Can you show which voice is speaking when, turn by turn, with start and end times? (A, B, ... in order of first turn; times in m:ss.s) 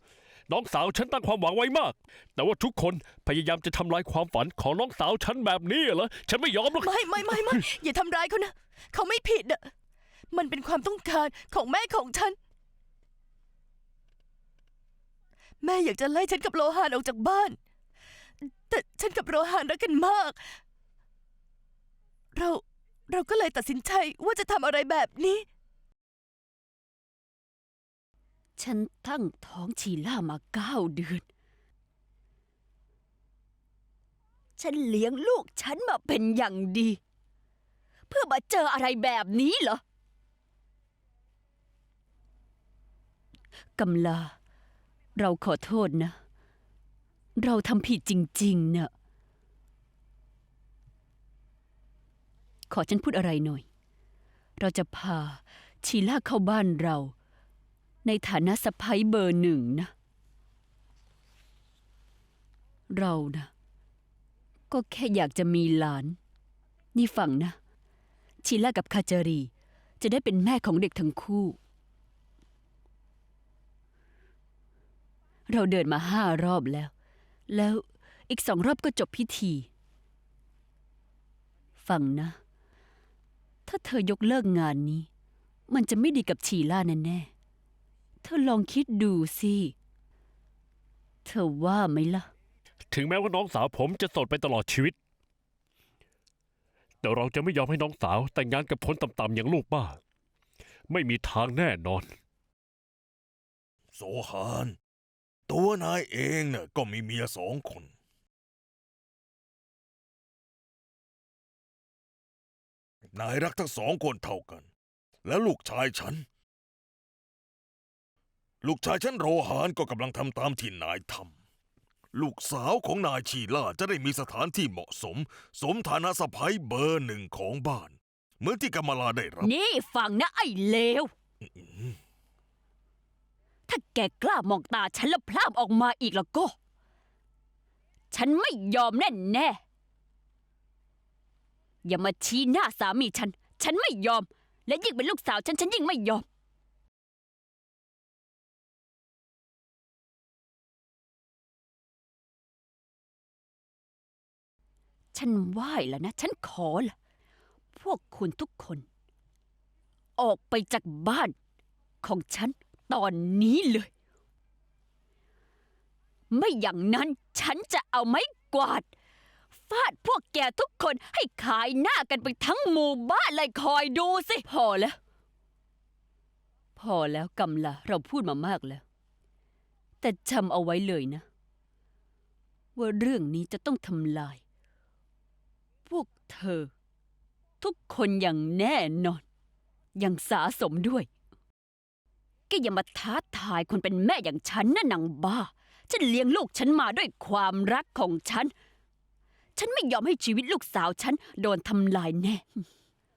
0:00.5-0:07.6 A
0:06.8-0:09.7 B
0:10.3-0:12.4 B
0:15.6-0:17.6 B
0:18.7-0:20.5 B
0:22.3-0:25.4 B
0:28.6-0:31.2 C
0:34.6-0:37.0 C
0:38.1-0:39.8 C
0:43.8-0:44.3 C
0:45.2-0:46.2 C
0:47.4-0:48.9 C
0:52.7-0:53.6 C
0:54.6-0:57.1 C
0:58.0-0:59.9 C
1:02.9-1:03.5 C
1:04.7-1:06.2 C
1:06.9-1:07.6 C
1:08.4-1:11.6 C
1:15.5-1:16.9 C
1:17.5-1:19.7 C
1:21.8-1:22.4 C
1:23.6-1:25.1 C
1:25.7-1:27.3 C
1:28.2-1:29.7 C
1:31.2-1:32.3 C
1:32.9-1:35.0 A
1:37.0-1:40.0 A
1:40.9-1:42.1 A
1:43.9-1:44.8 D
1:45.5-1:47.9 D
1:53.1-1:54.7 D
1:55.2-1:56.2 D
1:58.6-2:01.3 D
2:02.1-2:09.5 D
2:09.4-2:11.1 C
2:11.5-2:12.0 D
2:13.7-2:16.6 C
2:18.1-2:19.6 C
2:21.8-2:26.2 C
2:35.1-2:36.9 C
2:37.7-2:38.9 C
2:40.2-2:41.3 C
2:42.0-2:43.9 C
2:46.3-2:48.9 C
2:49.6-2:55.0 C
2:56.8-2:58.8 C
3:00.0-3:01.2 C
3:02.7-3:04.4 C
3:05.9-3:06.7 C
3:07.6-3:09.2 C
3:09.9-3:11.1 C
3:12.5-3:18.5 C
3:19.6-3:22.6 C